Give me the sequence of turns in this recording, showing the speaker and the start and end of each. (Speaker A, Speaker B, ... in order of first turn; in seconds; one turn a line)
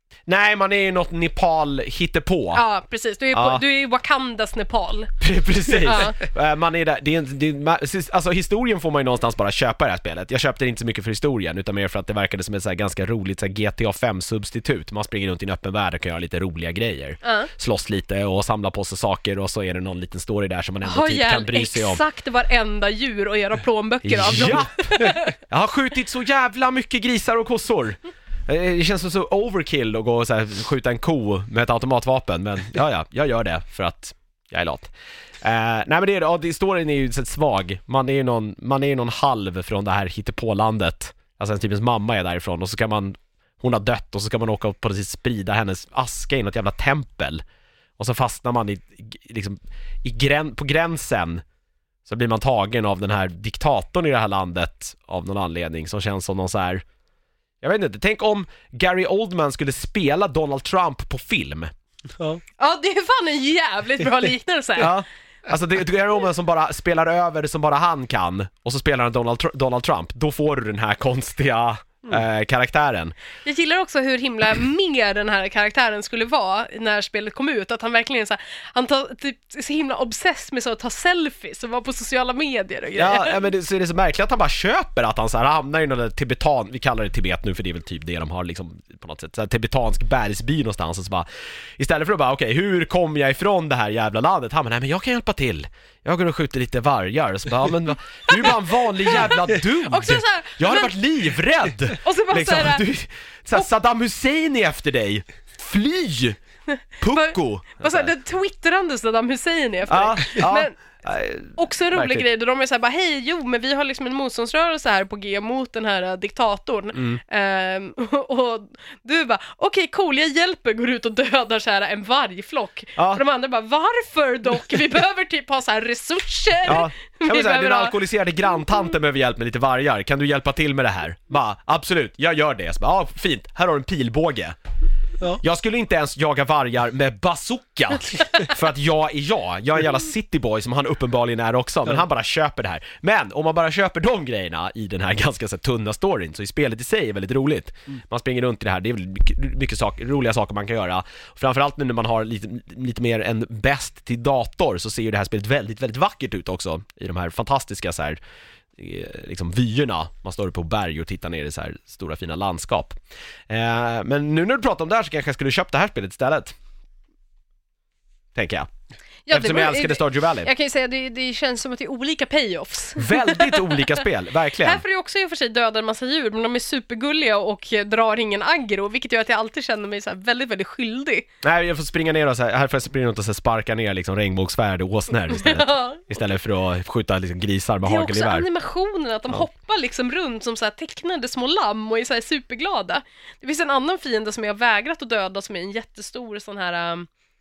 Speaker A: 0.3-2.6
Speaker B: 2.5-5.1
Speaker A: 3.3-3.6
Speaker A: 5.2-22.0
Speaker B: 5.7-6.2
Speaker B: 17.2-17.5
Speaker B: 20.8-25.3
Speaker A: 24.0-47.4
Speaker A: 48.0-51.4
Speaker A: 52.1-56.8
Speaker A: 57.6-61.7
Speaker B: 62.6-65.0
Speaker A: 64.8-73.2
Speaker B: 73.4-83.4
Speaker A: 83.0-106.4
Speaker B: 98.3-101.0
Speaker B: 102.0-102.8
Speaker A: 107.0-108.1
Speaker B: 107.0-110.8
Speaker A: 109.9-112.2
Speaker B: 111.6-128.0
Speaker A: 117.0-117.2
Speaker A: 123.0-123.2
Speaker A: 126.7-134.6
Speaker A: 135.4-158.2
Speaker A: 158.8-163.0
Speaker A: 163.5-166.6
Speaker A: 168.3-168.7
Speaker B: 169.3-174.0
Speaker A: 169.3-170.5
Speaker A: 173.0-174.8
Speaker B: 174.6-181.3
Speaker A: 181.4-188.5
Speaker B: 185.3-186.0
Speaker B: 187.8-197.1